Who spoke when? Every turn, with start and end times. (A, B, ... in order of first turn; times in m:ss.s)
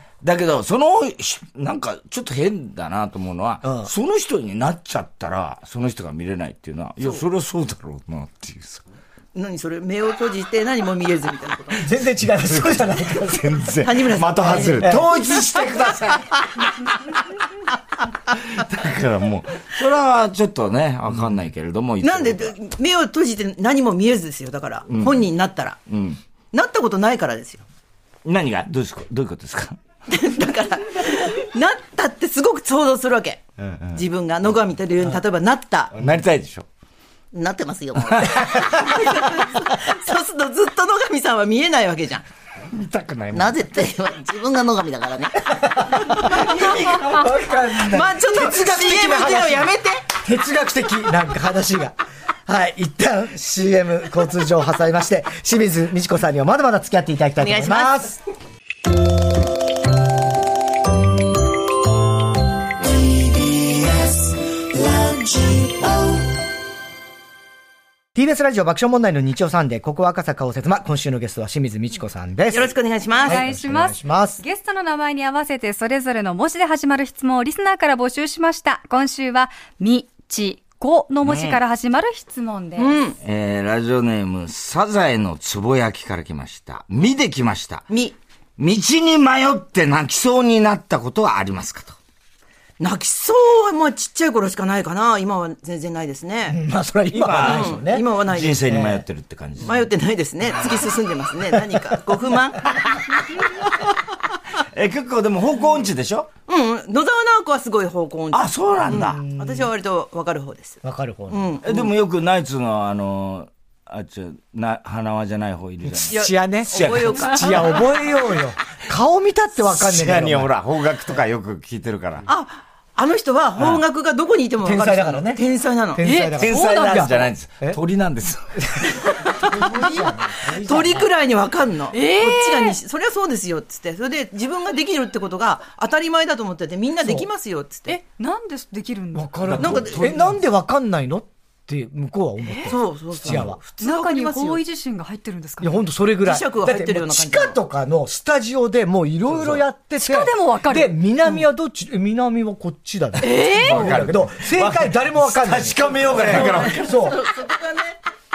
0:00.2-0:08.8 A
0:03.6-0:03.9 B
0:09.3-0:12.0 C
0:11.8-0:13.8 B
0:12.2-0:16.4 A
0:13.8-0:15.1 C
0:14.5-0:15.1 B
0:18.3-0:22.5 A
0:22.0-0:25.8 C
0:24.9-0:25.2 A
0:25.9-0:26.2 A
0:26.5-0:27.6 C
0:28.2-0:29.8 A
0:30.1-0:35.9 C
0:33.6-0:34.0 A
0:35.9-0:36.6 A
0:37.3-0:38.6 D
0:38.5-0:42.2 C
0:42.7-0:43.8 A
0:43.3-0:45.4 D
0:45.5-0:51.9 B
0:46.2-0:46.7 C
0:47.8-0:50.0 C
0:52.5-0:58.2 B
0:57.4-0:58.1 C
1:05.0-1:05.6 C
1:08.1-1:12.7 B
1:12.5-1:13.4 C
1:13.2-1:23.0 E
1:13.2-1:14.4 B
1:21.2-1:21.6 A
1:22.8-1:23.2 C
1:23.2-1:27.9 A
1:27.9-1:28.1 C
1:28.6-1:32.0 A
1:32.8-1:36.6 C
1:36.5-1:38.0 B
1:37.1-1:39.8 A
1:37.4-1:38.7 C
1:38.6-1:39.0 B
1:39.6-1:42.7 C
1:44.6-1:46.3 A
1:46.5-1:51.9 C
1:48.3-1:49.2 A
1:48.9-1:49.7 B
1:50.8-1:51.5 B
1:51.6-1:57.4 A
1:55.8-2:00.5 B
1:56.1-1:58.0 C
1:59.6-2:02.2 A
2:02.2-2:06.0 C
2:04.6-2:05.4 B
2:05.9-2:07.8 B
2:06.0-2:07.3 E
2:06.4-2:08.8 A
2:08.6-2:08.8 B
2:08.9-2:18.0 C
2:09.4-2:11.1 B
2:11.9-2:12.8 E
2:17.0-2:17.3 B
2:17.9-2:19.3 E
2:19.1-2:23.6 B
2:19.4-2:20.3 A
2:19.6-2:20.1 C
2:22.7-2:24.6 C
2:23.8-2:25.7 E
2:25.6-2:37.2 B
2:26.2-2:27.6 C
2:29.3-2:29.6 A
2:30.0-2:31.0 E
2:33.2-2:33.9 E
2:33.4-2:36.9 A
2:36.2-2:38.0 C